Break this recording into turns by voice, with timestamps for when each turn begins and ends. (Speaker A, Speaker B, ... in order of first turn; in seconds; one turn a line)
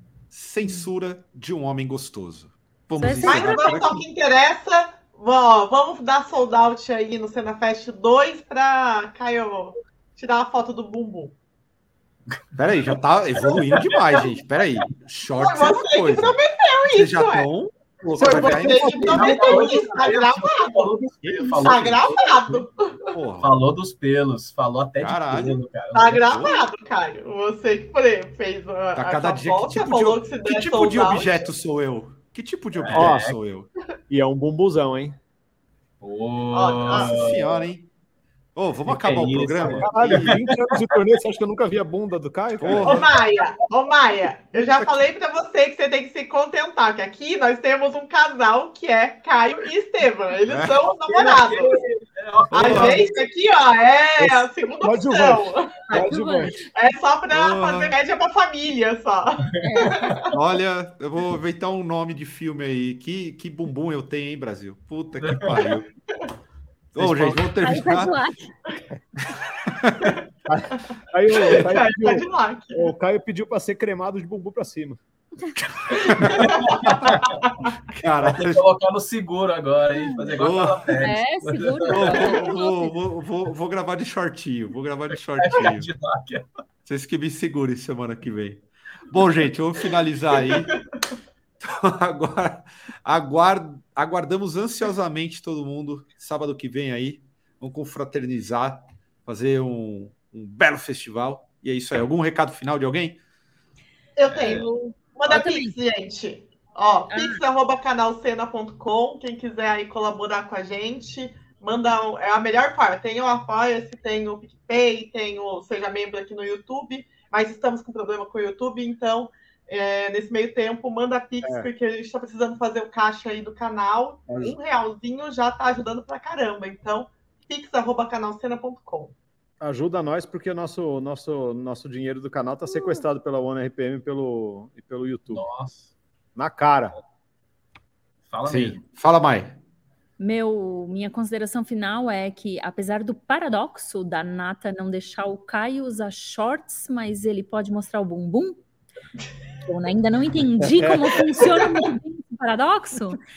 Speaker A: 0.3-4.0
Speaker B: 3.0-3.8
Speaker C: 3.2-11.4
Speaker D: 12.3-12.6
Speaker A: 12.6-16.4
Speaker D: 13.5-14.0
Speaker C: 15.4-17.5
Speaker A: 16.9-19.1
Speaker E: 18.1-20.0
Speaker C: 18.2-20.9
Speaker D: 18.9-22.7
Speaker A: 21.2-22.0
Speaker C: 21.5-23.1
Speaker A: 23.1-23.5
Speaker D: 23.4-26.4
Speaker A: 25.0-25.6
Speaker C: 25.9-31.5
Speaker A: 26.3-26.6
Speaker A: 28.9-33.7
Speaker D: 32.8-33.4
Speaker E: 32.9-33.3
Speaker E: 34.1-35.2
Speaker D: 36.0-37.5
Speaker C: 36.5-37.6
Speaker A: 36.9-37.9
Speaker A: 38.5-40.4
Speaker D: 38.9-41.0
Speaker E: 39.6-43.1
Speaker A: 42.6-43.1
Speaker C: 42.8-51.7
Speaker A: 44.5-45.0
Speaker A: 50.5-50.8
Speaker D: 51.0-53.1
Speaker A: 52.5-53.0
Speaker C: 52.5-55.8
Speaker E: 54.2-56.6
Speaker B: 55.9-56.6
Speaker C: 56.6-60.2
Speaker A: 57.3-58.0
Speaker B: 59.6-60.1
Speaker D: 59.9-60.1
Speaker A: 60.3-65.9
Speaker D: 65.2-65.7
Speaker A: 66.9-68.1
Speaker E: 67.0-67.4
Speaker B: 67.6-68.5
Speaker A: 69.7-70.2
Speaker E: 70.5-75.0
Speaker C: 71.3-72.9
Speaker A: 75.8-76.5
Speaker C: 76.3-76.7
Speaker D: 76.4-77.4
Speaker A: 77.9-78.6
Speaker D: 78.2-82.4
Speaker A: 80.4-80.8
Speaker B: 81.0-82.9
Speaker A: 81.9-85.9
Speaker D: 85.4-86.5
Speaker A: 86.8-90.8
Speaker A: 91.6-103.2
Speaker C: 104.2-129.2
Speaker D: 104.3-104.7
Speaker B: 105.3-105.8
Speaker B: 107.1-107.4
Speaker E: 121.4-121.7
Speaker E: 124.3-124.5
Speaker E: 129.6-135.4
Speaker D: 135.3-135.9
Speaker E: 136.4-137.0
Speaker D: 138.3-138.8
Speaker A: 138.4-139.6
Speaker B: 140.2-148.6
Speaker B: 149.6-153.2
Speaker E: 150.8-151.2